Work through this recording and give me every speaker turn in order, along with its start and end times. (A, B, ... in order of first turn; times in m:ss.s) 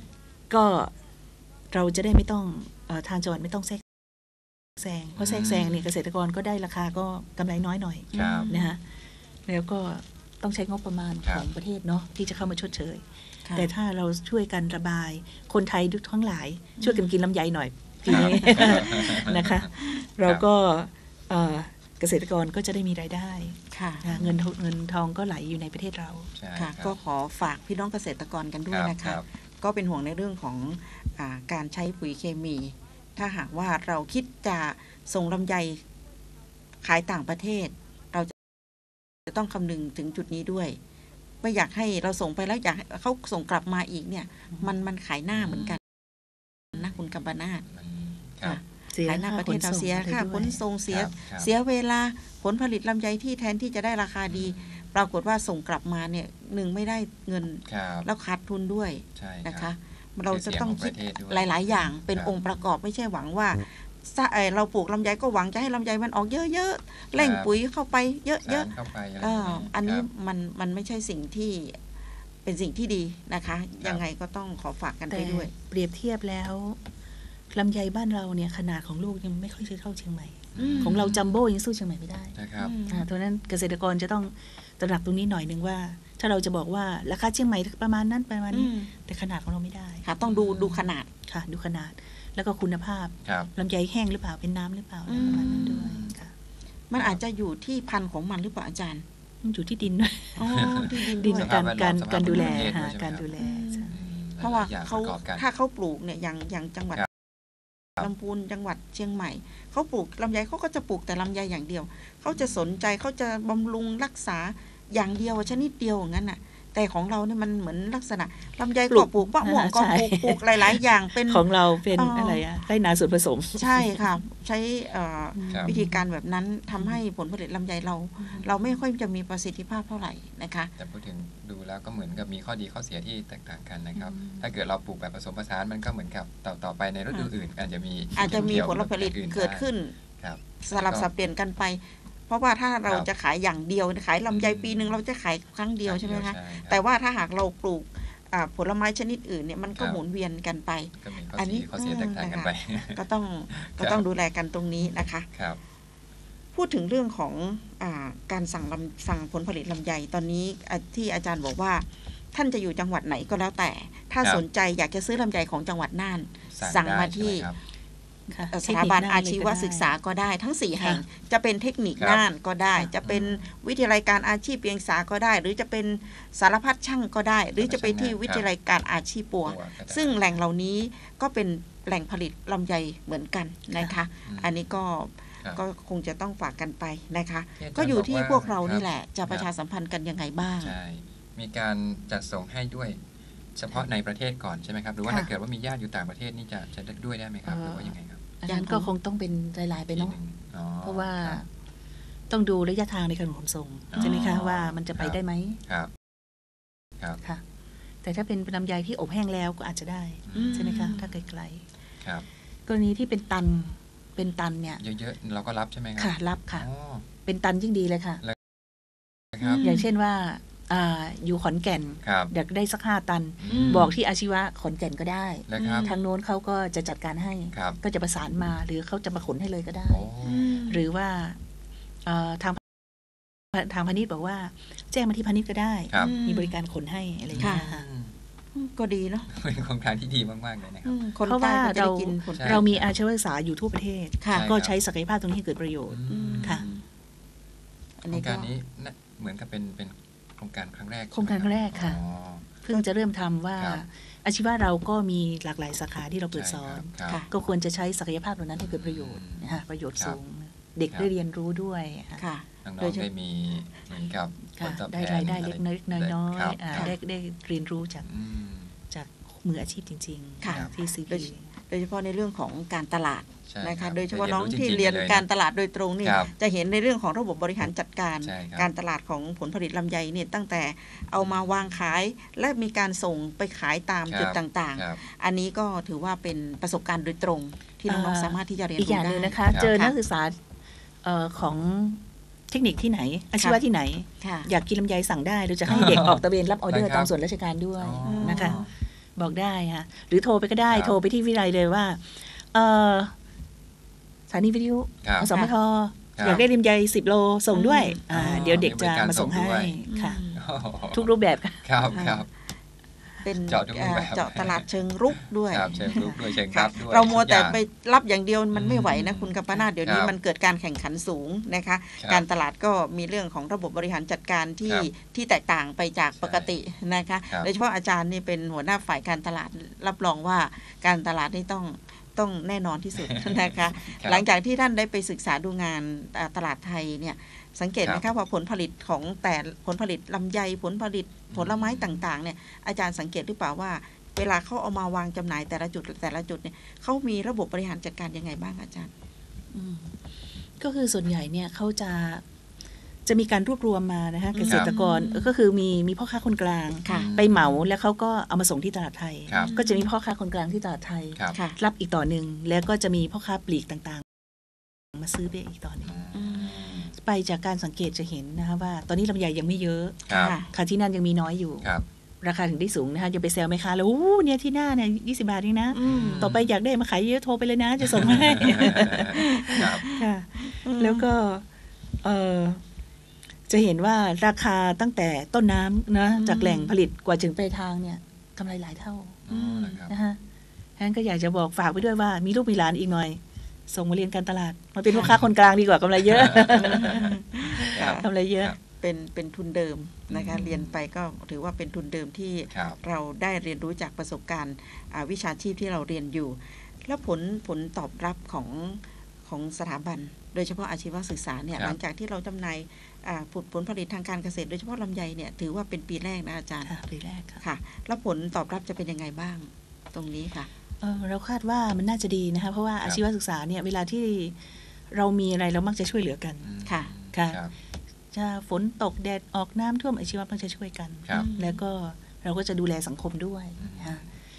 0:00.5-0:00.9 A
0:01.7-0:03.8 A
0:04.8-0:08.8 A
0:05.2-0:05.8 B
0:08.1-0:08.5 B
0:08.1-0:08.7 C
0:09.5-0:13.0 A
0:11.2-0:11.5 B
0:12.4-0:12.7 B
0:13.6-0:26.3 A
0:16.8-0:17.1 C
0:18.1-0:18.8 C
0:18.1-0:19.7 B
0:23.7-0:24.4 C
0:26.4-0:27.0 B
0:26.6-0:35.8 C
0:28.7-0:29.2 B
0:36.8-0:38.3 C
0:39.3-0:40.8 C
0:41.4-0:45.8 C
0:45.4-0:45.8 B
0:46.7-0:47.6 C
0:47.7-0:48.6 B
0:48.4-1:11.8 C
0:48.9-0:50.6 A
0:50.9-0:51.5 B
0:54.3-0:54.9 B
0:57.7-0:58.1 B
0:59.2-0:59.7 B
1:00.3-1:02.4 B
1:07.2-1:07.5 B
1:08.4-1:10.1 B
1:12.4-1:15.5 C
1:15.1-1:16.8 A
1:17.5-1:22.4 A
1:20.6-1:21.4 B
1:20.6-1:21.0 C
1:22.4-1:22.8 B
1:22.6-1:23.0 C
1:22.9-1:30.0 A
1:28.5-1:28.9 C
1:30.0-1:31.1 C
1:30.2-1:30.9 B
1:31.3-1:36.3 A
1:33.2-1:33.5 B
1:35.1-1:36.1 C
1:35.2-1:36.1 B
1:36.9-1:39.0 C
1:37.0-1:37.2 B
1:39.4-1:43.9 A
1:40.4-1:41.5 C
1:40.5-1:43.3 B
1:42.3-1:42.7 C
1:43.4-1:47.0 C
1:43.9-1:45.5 B
1:48.0-2:02.4 C
1:58.9-2:00.4 A
2:01.3-2:04.0 A
2:03.5-2:10.7 C
2:05.4-2:06.0 A
2:10.8-2:19.7 B
2:14.0-2:14.4 A
2:18.2-2:20.0 C
2:20.2-2:21.1 B
2:20.6-2:35.3 C
2:24.3-2:25.0 B
2:25.8-2:26.8 B
2:29.8-2:30.0 B
2:31.0-2:34.0 B
2:34.9-2:35.6 B
2:36.6-2:47.5 C
2:46.5-2:47.6 B
2:48.3-2:49.9 A
2:48.5-3:10.8 C
2:52.0-2:52.2 B
2:53.0-2:53.4 B
2:57.6-2:58.5 B
2:59.4-3:00.2 B
3:04.3-3:04.7 B
3:07.6-3:09.5 B
3:10.4-3:13.0 B
3:13.6-3:18.2 B
3:17.5-3:20.2 A
3:18.5-3:18.9 C
3:19.9-3:21.4 B
3:20.8-3:21.5 A
3:22.3-3:25.6 A
3:23.9-3:25.9 B
3:24.0-3:24.4 C
3:28.0-3:31.6 A
3:30.3-3:31.1 B
3:30.4-3:31.0 C
3:32.7-3:34.8 A
3:34.8-3:37.1 B
3:36.0-3:36.7 A
3:37.3-3:38.2 A
3:39.3-3:39.7 B
3:39.4-3:39.8 C
3:39.6-3:50.1 A
3:42.0-3:42.3 B
3:43.4-3:44.0 B
3:43.5-3:43.9 C
3:45.5-3:45.9 B
3:45.6-3:46.0 C
3:47.5-3:47.8 B
3:49.9-3:50.8 B
3:50.2-3:50.8 C
3:50.7-3:51.4 A
3:52.1-3:52.6 A
3:53.5-3:57.8 A
3:55.9-3:56.2 B
3:56.0-3:56.6 C
3:57.3-3:58.1 B
3:57.4-3:57.7 C
3:58.6-3:59.3 C
3:59.3-4:01.0 B
4:00.8-4:02.6 C
4:01.2-4:06.6 A
4:02.4-4:02.9 B
4:04.2-4:04.5 C
4:04.3-4:04.8 B
4:05.9-4:06.7 B
4:06.1-4:06.8 C
4:08.0-4:08.5 C
4:08.1-4:12.5 B
4:11.1-4:12.0 A
4:12.6-4:22.2 A
4:13.6-4:13.8 B
4:16.3-4:17.3 B
4:18.6-4:20.2 B
4:22.2-4:23.1 C
4:22.6-4:27.0 B
4:24.5-4:28.1 A
4:28.0-4:28.7 B
4:28.9-4:31.5 A
4:30.4-4:50.0 C
4:33.5-4:35.3 B
4:36.0-4:36.3 B
4:38.2-4:38.7 B
4:41.2-4:41.6 B
4:44.1-4:45.0 B
4:47.9-4:50.4 A
4:51.0-4:58.6 A
4:54.2-4:54.5 C
4:55.7-4:57.1 B
4:57.8-4:58.7 B
4:58.0-4:58.6 C
4:59.2-5:03.2 A
5:00.7-5:01.0 B
5:04.3-5:10.2 A
5:05.0-5:05.3 B
5:06.2-5:06.4 B
5:07.5-5:08.4 C
5:08.1-5:09.8 B
5:09.9-5:10.4 C
5:10.3-5:12.3 B
5:10.9-5:11.6 A
5:11.9-5:12.2 C
5:13.2-5:48.9 C
5:13.4-5:17.6 B
5:18.5-5:20.1 B
5:22.0-5:22.2 B
5:26.2-5:26.5 B
5:33.0-5:34.3 B
5:41.3-5:42.0 B
5:49.5-5:49.9 A
5:50.6-5:52.2 A
5:53.1-6:04.1 A
5:54.4-5:55.3 C
5:54.4-5:54.7 B
5:56.8-5:57.1 C
5:56.9-5:57.7 B
5:59.3-5:59.5 B
5:59.4-5:59.9 C
6:04.9-6:05.9 A
6:05.8-6:07.0 B
6:06.1-6:06.9 C
6:06.9-6:11.7 A
6:10.1-6:10.4 B
6:10.1-6:10.5 C
6:12.2-6:21.4 A
6:15.7-6:16.3 C
6:15.8-6:16.5 B
6:17.8-6:19.8 B
6:18.6-6:21.1 C
6:22.0-6:22.6 A
6:23.5-6:29.2 A
6:26.1-6:26.7 C
6:29.3-6:30.0 B
6:29.3-6:29.8 C
6:29.9-6:30.2 A
6:30.8-6:38.6 A
6:36.0-6:37.2 B
6:36.6-6:56.7 C
6:37.8-6:38.6 B
6:40.1-6:40.8 B
6:42.5-6:42.8 B
6:56.6-6:57.4 A
6:57.4-7:00.5 C
7:00.8-7:04.4 A
7:04.9-7:06.5 A
7:06.4-7:07.5 B
7:06.7-7:06.9 C
7:07.1-7:07.4 A
7:08.1-7:14.0 A
7:11.1-7:11.6 C
7:13.6-7:14.1 B